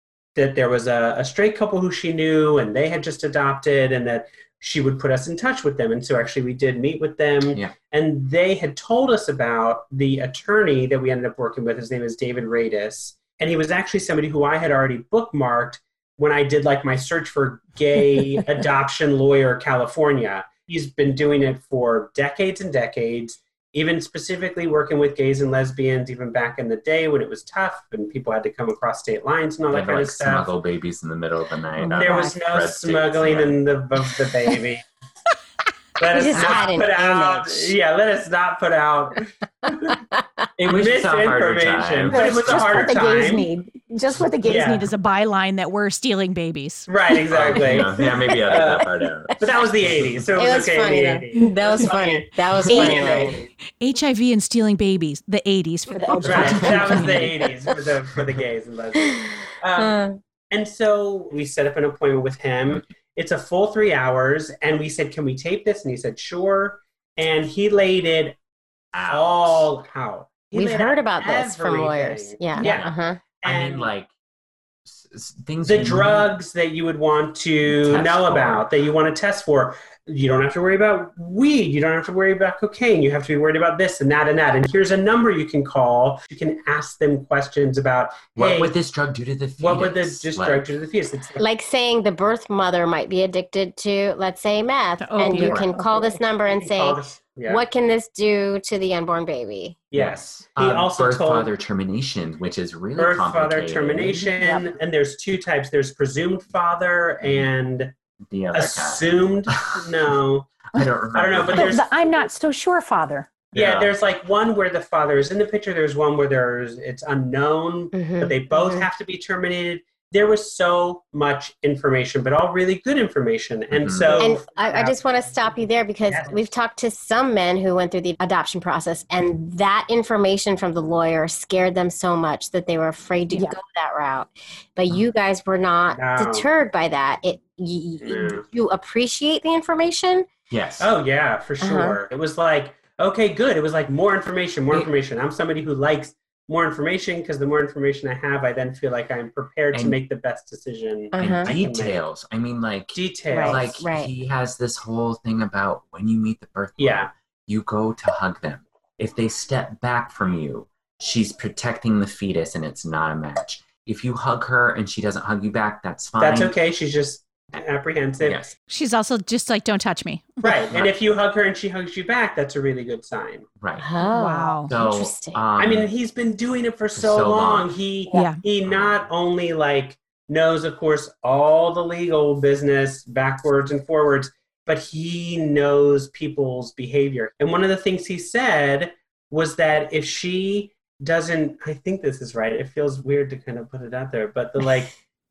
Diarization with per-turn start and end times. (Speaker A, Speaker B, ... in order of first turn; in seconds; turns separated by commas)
Speaker A: 0.3-30.5, Speaker B: 29.7-33.6, Speaker C: 31.8-32.3, Speaker A: 31.9-34.8, Speaker A: 36.0-40.0, Speaker C: 36.1-37.7, Speaker C: 39.7-40.2, Speaker B: 40.6-43.0, Speaker A: 40.6-43.5, Speaker D: 42.1-44.8, Speaker A: 44.4-44.9, Speaker E: 44.4-46.9, Speaker A: 46.9-53.5, Speaker B: 47.3-50.3, Speaker C: 48.3-48.6, Speaker C: 50.4-53.4, Speaker E: 52.7-53.2, Speaker E: 53.8-57.3, Speaker D: 56.0-57.0, Speaker B: 56.2-57.1, Speaker A: 56.2-68.3, Speaker C: 59.2-60.1, Speaker B: 68.9-69.7, Speaker A: 69.0-73.9, Speaker C: 70.5-73.2, Speaker B: 72.6-74.1, Speaker B: 74.8-76.3, Speaker A: 75.6-88.7, Speaker B: 77.6-78.7, Speaker B: 88.3-90.7, Speaker A: 89.6-91.4, Speaker C: 91.4-99.8, Speaker E: 95.0-95.6, Speaker A: 96.5-97.6, Speaker A: 99.9-101.5, Speaker B: 99.9-104.3, Speaker A: 103.0-107.9, Speaker B: 107.2-107.5, Speaker B: 108.3-110.1, Speaker A: 108.5-110.5, Speaker B: 110.7-111.8, Speaker A: 111.1-112.2, Speaker D: 111.5-113.4, Speaker A: 113.5-125.0, Speaker B: 113.5-113.9, Speaker C: 117.9-118.9, Speaker B: 123.7-124.3, Speaker C: 124.2-140.3, Speaker A: 126.1-126.4, Speaker A: 135.9-136.5, Speaker A: 138.0-138.4, Speaker B: 140.5-140.9, Speaker A: 140.8-152.0, Speaker C: 141.6-142.0, Speaker B: 149.7-150.0, Speaker C: 151.1-151.5, Speaker B: 151.2-166.5, Speaker A: 152.9-153.8, Speaker C: 153.3-154.1, Speaker A: 156.8-157.1, Speaker A: 166.2-168.5, Speaker B: 168.2-168.5, Speaker E: 168.7-170.5, Speaker A: 170.4-173.4, Speaker B: 173.6-173.9, Speaker C: 173.8-175.4, Speaker E: 174.0-174.7, Speaker B: 174.7-175.9, Speaker A: 175.6-194.9, Speaker B: 176.9-177.7, Speaker E: 178.1-178.4, Speaker B: 178.6-179.1